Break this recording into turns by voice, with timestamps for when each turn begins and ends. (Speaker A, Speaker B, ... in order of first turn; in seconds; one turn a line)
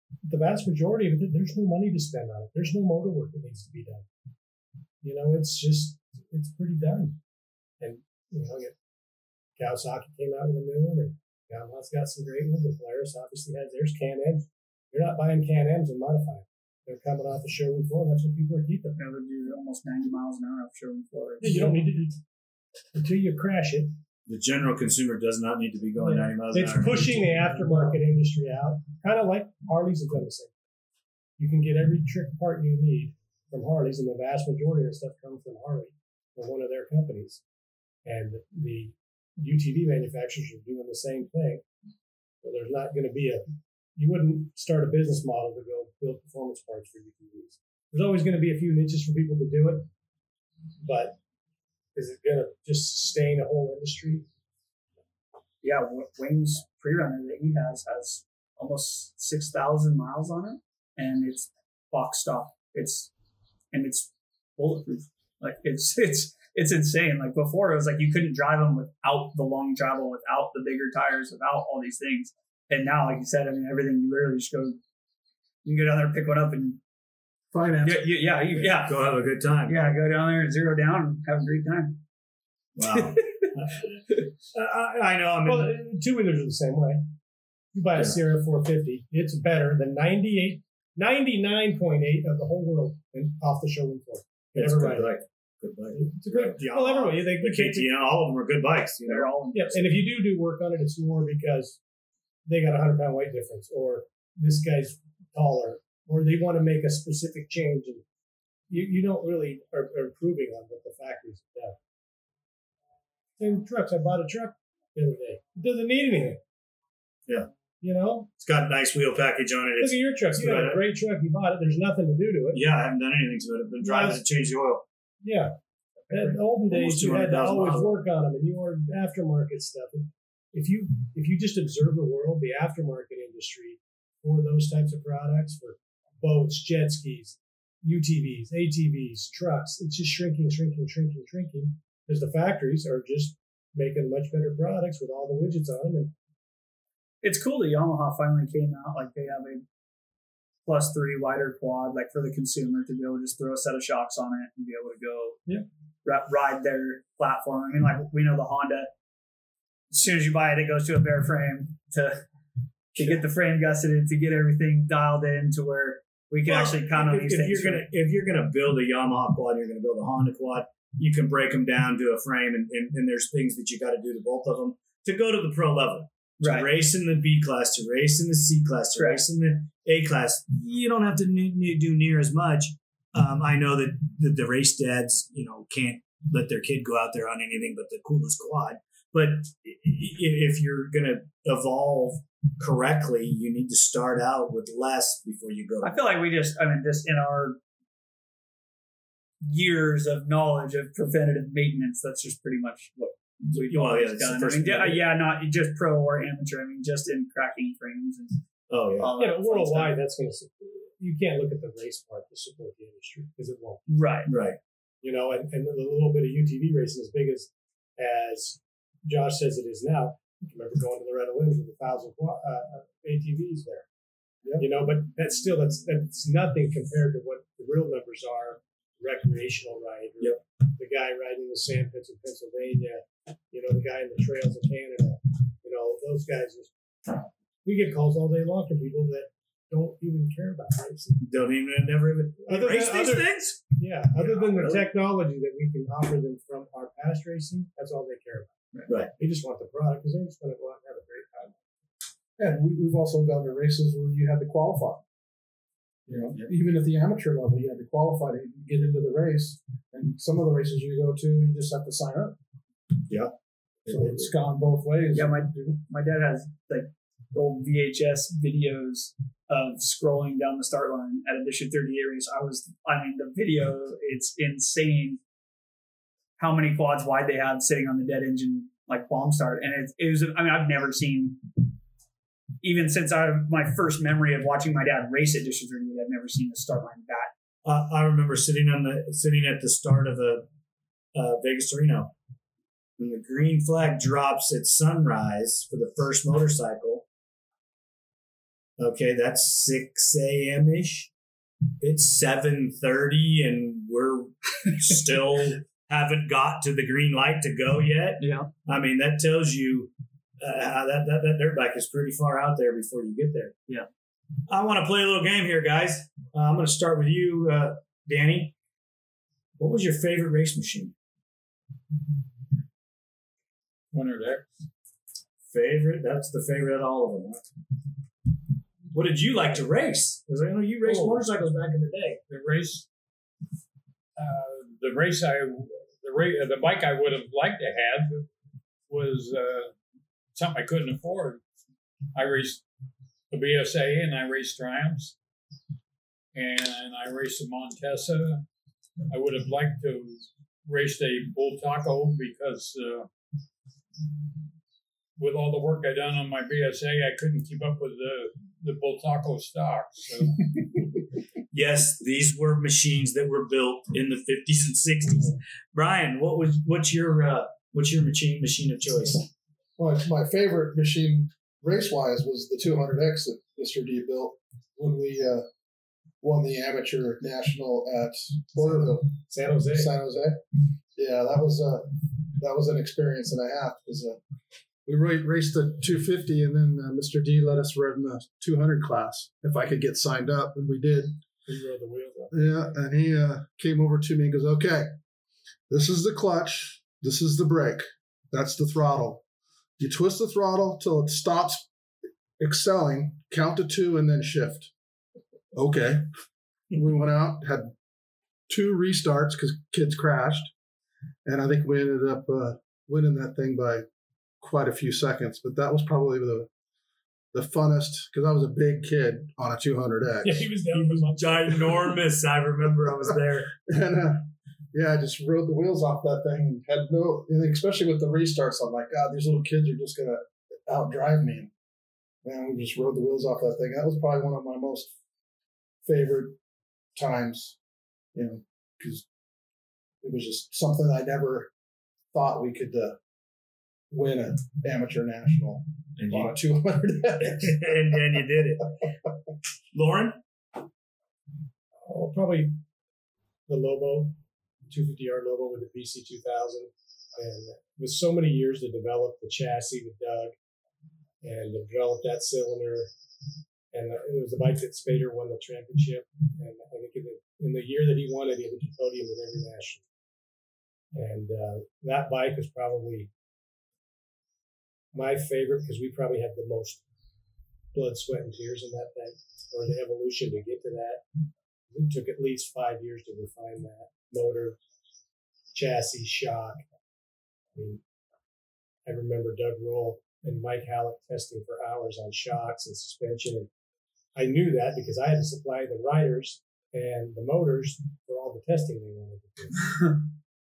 Speaker A: 0.2-4.1
Speaker A: 5.0-7.2
Speaker A: 7.8-8.8
Speaker A: 9.6-18.9
Speaker B: 18.9-21.8
Speaker A: 21.4-22.2
Speaker A: 22.9-24.0
Speaker C: 24.3-28.0
Speaker A: 26.0-30.5
Speaker A: 31.4-37.4
Speaker A: 38.0-41.6
Speaker A: 42.4-49.9
Speaker A: 50.8-51.2
Speaker A: 52.0-54.3
Speaker B: 55.6-63.1
Speaker B: 63.7-74.8
Speaker B: 75.7-76.8
Speaker D: 77.5-78.1
Speaker B: 77.8-79.2
Speaker C: 78.6-79.8
Speaker B: 79.7-82.0
Speaker C: 82.8-85.7
Speaker A: 85.5-87.1
Speaker A: 87.7-95.1
Speaker C: 94.5-99.3
Speaker A: 95.9-98.0
Speaker B: 99.1-99.9
Speaker A: 99.5-101.8
Speaker A: 102.5-108.0
Speaker A: 108.7-111.8
Speaker A: 113.4-116.4
Speaker A: 117.8-118.3
Speaker C: 118.4-120.8
Speaker A: 119.8-122.6
Speaker C: 122.5-124.8
Speaker A: 123.8-124.2
Speaker A: 125.2-125.6
Speaker C: 126.1-128.0
Speaker A: 126.1-146.1
Speaker B: 147.2-149.6
Speaker B: 150.7-155.5
Speaker B: 156.1-158.9
Speaker B: 159.9-162.2
Speaker B: 162.9-167.9
Speaker C: 166.5-196.0
Speaker B: 176.4-176.7
Speaker B: 179.0-179.2
Speaker B: 195.8-197.6
Speaker B: 199.4-208.4
Speaker C: 203.5-205.0
Speaker C: 208.7-209.1
Speaker B: 209.0-209.9
Speaker A: 209.2-213.8
Speaker B: 213.9-214.3
Speaker C: 214.3-214.6
Speaker A: 215.0-223.9
Speaker A: 224.6-241.3
Speaker C: 241.2-243.6
Speaker A: 242.4-248.6
Speaker C: 244.2-244.9
Speaker C: 248.9-249.1
Speaker A: 249.2-251.6
Speaker D: 252.4-255.0
Speaker D: 256.1-262.4
Speaker C: 263.1-263.3
Speaker C: 263.9-264.3
Speaker D: 263.9-265.7
Speaker B: 265.1-275.2
Speaker B: 276.4-281.4
Speaker B: 282.6-287.3
Speaker C: 287.6-290.5
Speaker C: 291.1-292.1
Speaker C: 293.0-297.1
Speaker C: 298.8-301.1
Speaker C: 301.8-313.6
Speaker B: 308.2-308.5
Speaker C: 314.5-318.6
Speaker C: 319.6-320.9
Speaker E: 323.9-324.5
Speaker C: 325.5-327.4
Speaker C: 328.9-332.2
Speaker E: 330.8-331.3
Speaker E: 332.3-332.9
Speaker E: 334.2-338.3
Speaker E: 338.9-339.7
Speaker E: 340.3-341.4
Speaker E: 342.1-342.6
Speaker E: 343.3-345.2
Speaker E: 346.4-348.5
Speaker E: 349.1-353.1
Speaker E: 355.2-360.5
Speaker C: 361.5-369.3
Speaker D: 369.8-375.5
Speaker D: 376.2-379.1
Speaker A: 378.6-379.9
Speaker D: 379.7-380.4
Speaker D: 380.9-384.2
Speaker D: 384.9-391.2
Speaker A: 391.5-392.6
Speaker D: 392.3-394.9
Speaker D: 395.7-399.2
Speaker D: 399.8-401.7
Speaker D: 402.4-404.7
Speaker D: 405.5-406.1
Speaker D: 406.7-407.7
Speaker D: 408.5-410.5
Speaker D: 411.2-413.8
Speaker D: 414.4-416.5
Speaker D: 417.3-420.5
Speaker A: 420.2-421.8
Speaker C: 420.7-423.5
Speaker D: 423.7-431.5
Speaker D: 432.2-434.9
Speaker D: 435.8-436.4
Speaker D: 436.9-437.6
Speaker D: 438.1-439.1
Speaker D: 440.0-441.5
Speaker D: 442.1-443.0
Speaker D: 443.9-448.2
Speaker C: 446.0-446.4
Speaker C: 447.2-448.8
Speaker C: 449.7-450.2
Speaker A: 451.9-452.6
Speaker A: 453.5-454.2
Speaker A: 454.7-460.4
Speaker A: 461.2-462.9
Speaker A: 463.7-469.8
Speaker A: 470.9-473.1
Speaker A: 474.9-476.8
Speaker A: 477.7-481.1
Speaker A: 481.7-484.6
Speaker A: 485.5-486.6
Speaker A: 487.6-487.8
Speaker A: 488.9-493.5
Speaker A: 494.1-500.0